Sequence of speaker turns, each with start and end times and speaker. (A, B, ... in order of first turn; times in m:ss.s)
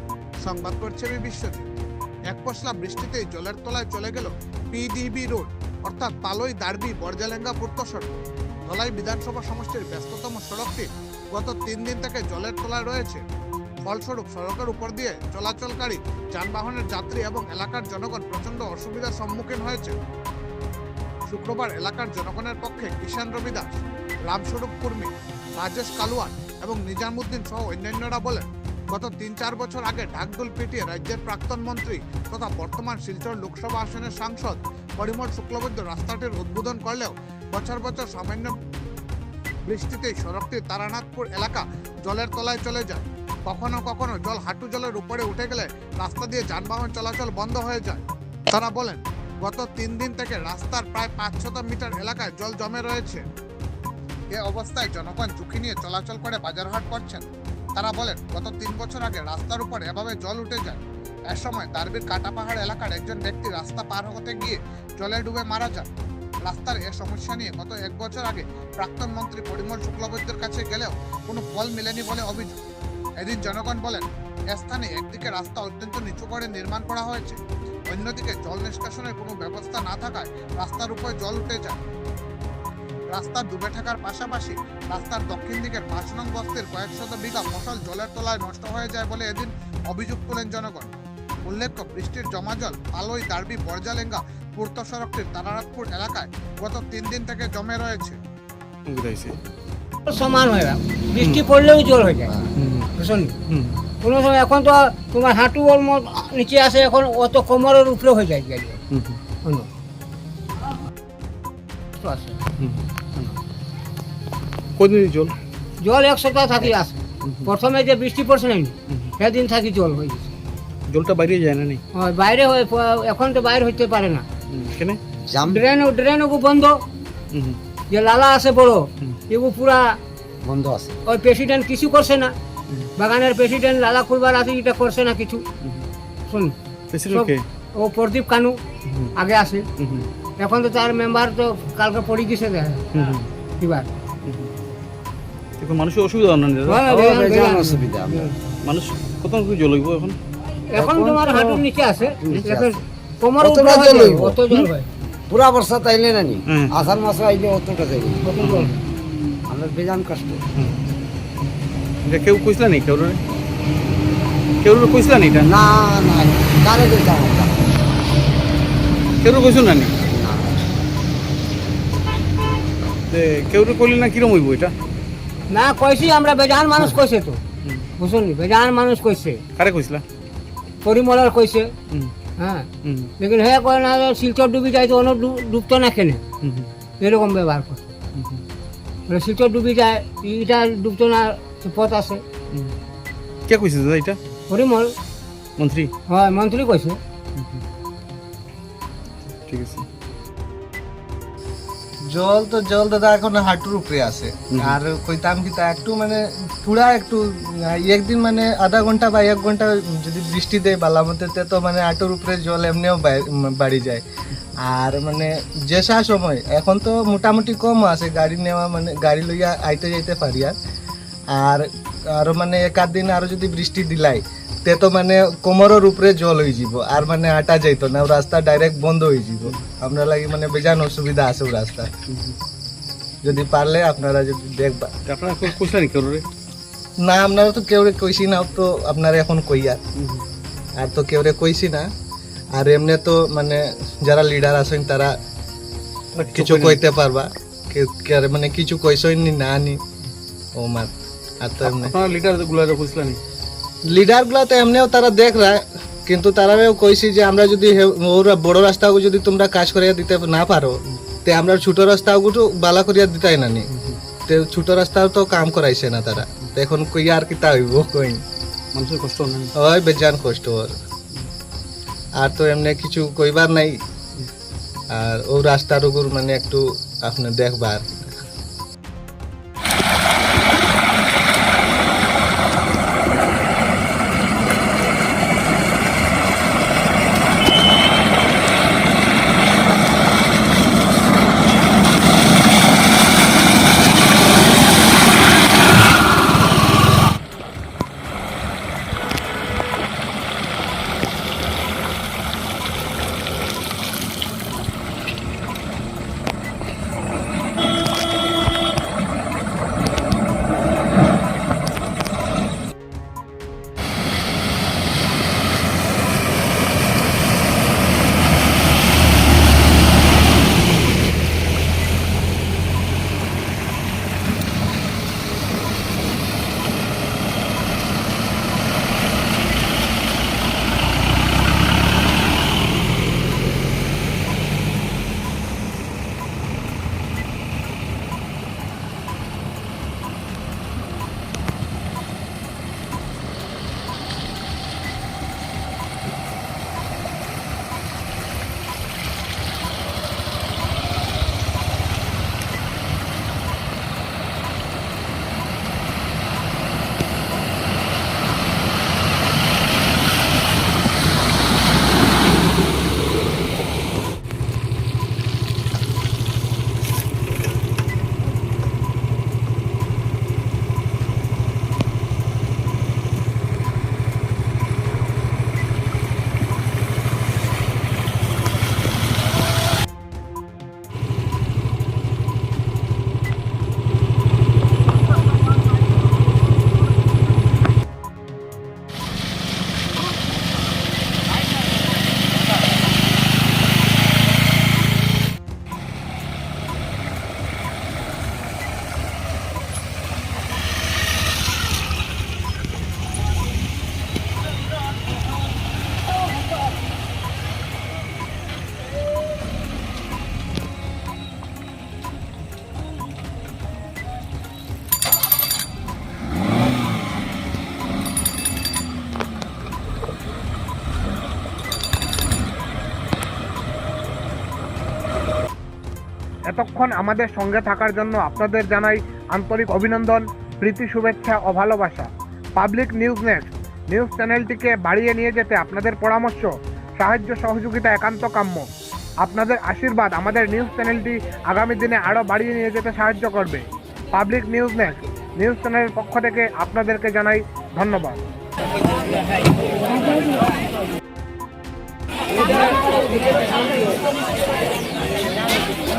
0:00.4-0:01.7 A
0:02.3-0:08.1 A
0:08.6-0:13.2 A
0:13.8-0:20.0 A
0:21.3-0:38.6 A
0:39.6-0:53.2 A
0:54.3-1:05.9 A
1:06.4-1:12.6 A
1:13.2-1:21.8 A
1:23.1-1:30.9 A
1:31.4-1:38.2 A
1:38.9-1:39.4 B
1:40.0-1:43.3 C
1:42.6-1:42.9 B
1:43.5-1:43.8 B
1:44.0-1:48.8 C
1:48.9-1:49.2 B
1:52.0-1:52.4 C
1:52.6-1:53.4 B
1:54.8-1:55.3 B
1:55.8-2:00.3 C
2:00.9-2:01.8 B
2:01.9-2:04.2 C
2:04.5-2:05.0 B
2:05.3-2:05.6 D
2:05.4-2:06.7 C
2:07.3-2:07.6 B
2:07.9-2:09.9 C
2:10.4-2:11.0 D
2:11.1-2:12.3 C
2:13.0-2:15.4 C
2:16.3-2:16.5 C
2:16.9-2:17.4 B
2:17.1-2:18.6 C
2:18.9-2:19.1 B
2:19.2-2:19.6 C
2:19.8-2:20.1 B
2:20.4-2:22.8 C
2:22.9-2:23.3 B
2:23.6-2:23.9 C
2:24.2-2:24.5 B
2:25.6-2:26.8 B
2:26.6-2:28.3 C
2:26.8-2:28.3 D
2:28.6-2:30.2 B
2:30.7-2:34.9 C
2:30.8-2:31.6 D
2:32.2-2:32.7 D
2:33.4-2:34.7 D
2:35.3-2:38.7 D
2:36.5-2:36.7 B
2:38.4-2:38.8 B
2:39.5-2:40.4 D
2:42.0-2:43.2 B
2:44.6-2:45.5 B
2:45.4-2:47.6 D
2:49.2-2:50.0 B
2:50.1-2:50.8 D
2:53.1-2:54.7 B
2:55.5-2:57.4 C
2:58.0-2:59.4 C
2:59.6-3:00.0 B
3:00.8-3:01.7 C
3:02.4-3:02.7 C
3:02.8-3:03.1 B
3:03.2-3:06.2 C
3:06.4-3:06.7 B
3:07.0-3:07.9 C
3:08.1-3:08.4 B
3:09.1-3:12.2 C
3:12.5-3:12.8 B
3:13.5-3:14.2 B
3:14.5-3:14.9 C
3:15.6-3:15.9 B
3:16.1-3:17.0 C
3:17.3-3:17.6 B
3:19.5-3:19.8 B
3:22.0-3:34.0 E
3:24.5-3:24.8 B
3:34.6-3:40.6 E
3:41.3-3:51.9 E
3:52.1-3:52.4 B
3:53.2-3:54.9 E
3:55.0-3:56.2 B
3:57.0-3:59.8 E
4:00.0-4:00.2 B
4:00.8-4:01.9 E
4:02.6-4:05.1 E
4:06.1-4:06.8 B
4:06.3-4:09.8 E
4:10.6-4:11.9 E
4:11.6-4:13.2 B
4:13.9-4:23.7 E
4:23.7-4:24.0 B
4:24.3-4:28.2 E
4:28.7-4:29.5 B
4:29.6-4:30.8 E
4:32.2-4:33.8 E
4:34.9-4:38.2 E
7:06.5-7:18.7 F
7:19.2-7:28.2 F